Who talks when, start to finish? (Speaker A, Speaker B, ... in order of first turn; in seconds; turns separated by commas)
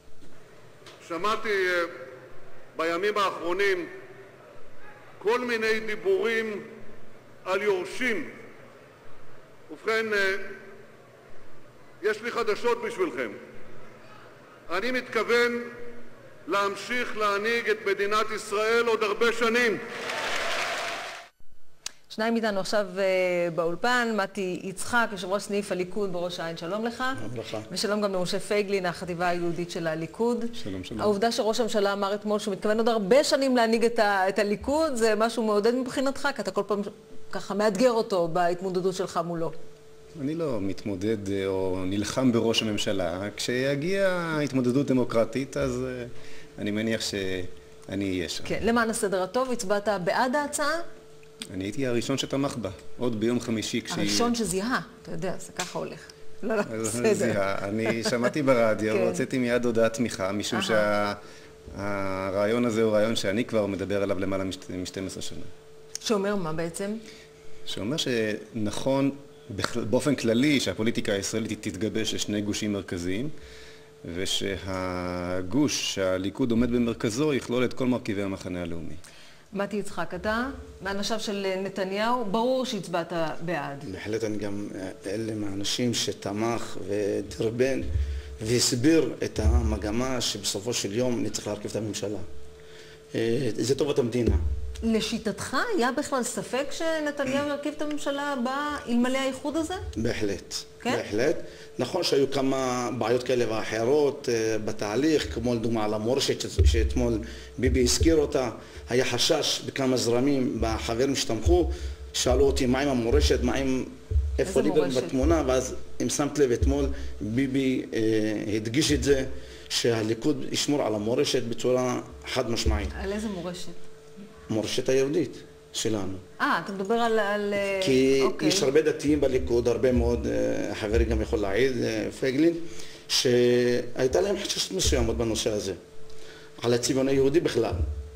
Speaker A: 1.1-1.9, Speaker A: 2.8-3.9, Speaker A: 5.2-6.7, Speaker A: 7.5-8.3, Speaker A: 9.7-10.5, Speaker A: 12.0-13.4, Speaker A: 14.7-15.7, Speaker A: 16.5-19.8, Speaker B: 22.1-39.5, Speaker C: 27.2-27.7, Speaker D: 30.6-31.2, Speaker D: 40.2-48.5, Speaker B: 48.5-50.8, Speaker D: 51.5-54.3, Speaker B: 53.9-58.3, Speaker D: 56.6-61.2, Speaker B: 58.9-59.2, Speaker B: 60.5-60.9, Speaker D: 61.7-65.5, Speaker B: 66.0-67.0, Speaker D: 67.7-73.3, Speaker D: 74.0-79.0, Speaker B: 79.5-83.9, Speaker C: 83.9-87.9, Speaker C: 88.4-92.2, Speaker C: 93.1-94.4, Speaker B: 94.8-99.8, Speaker C: 100.0-122.9, Speaker B: 114.5-115.1, Speaker B: 122.9-123.8, Speaker C: 124.5-126.2, Speaker B: 126.4-128.7, Speaker C: 127.8-135.8, Speaker C: 136.6-137.8